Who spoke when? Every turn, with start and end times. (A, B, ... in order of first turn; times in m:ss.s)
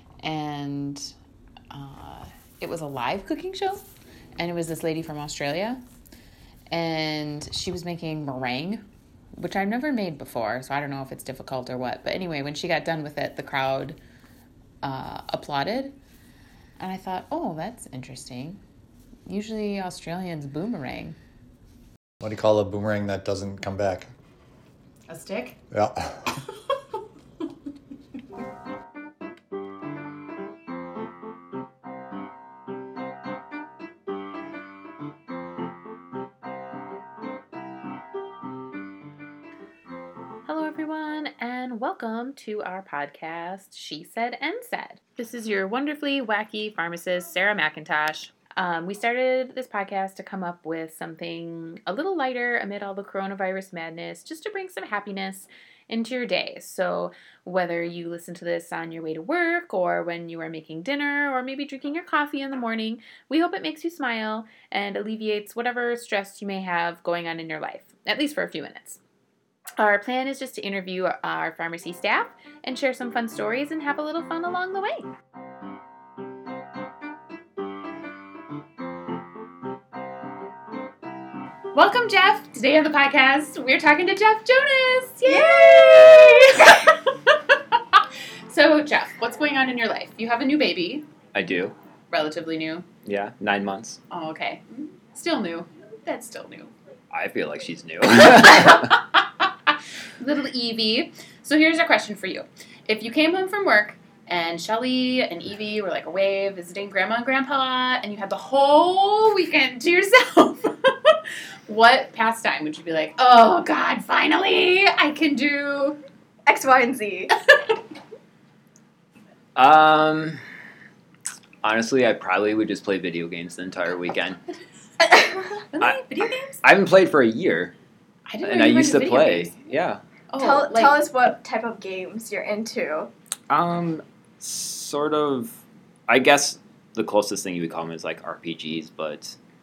0:00.2-0:01.1 A
0:01.7-0:03.8 A
0:04.4-0:05.8 A
0:06.7-0:08.8 A
0:09.4-0:14.0 A
0:14.8-0:16.0 A
0:16.8-0:18.6 A
0:19.3-0:21.2 A
0:22.2-0:24.1 B
0:25.1-0:25.6 A
0:25.7-0:26.1 B
0:40.4-1:09.0 A
1:09.8-1:15.1 A
1:21.7-1:27.0 A
1:25.2-1:26.7 C
1:28.5-1:31.1 A
1:31.3-1:31.7 D
1:32.1-1:32.8 A
1:33.0-1:34.0 D
1:34.1-1:36.7 A
1:37.1-1:39.0 D
1:38.7-1:38.9 A
1:40.2-1:56.0 A
1:56.5-1:57.3 C
1:59.6-2:00.4 D
2:01.6-2:04.4 D
2:05.0-2:05.5 C
2:05.7-2:06.6 A
2:06.6-2:07.7 D
2:08.3-2:09.5 A
2:08.4-2:10.0 D
2:10.3-2:11.0 A
2:10.4-2:13.1 C
2:13.5-2:19.4 D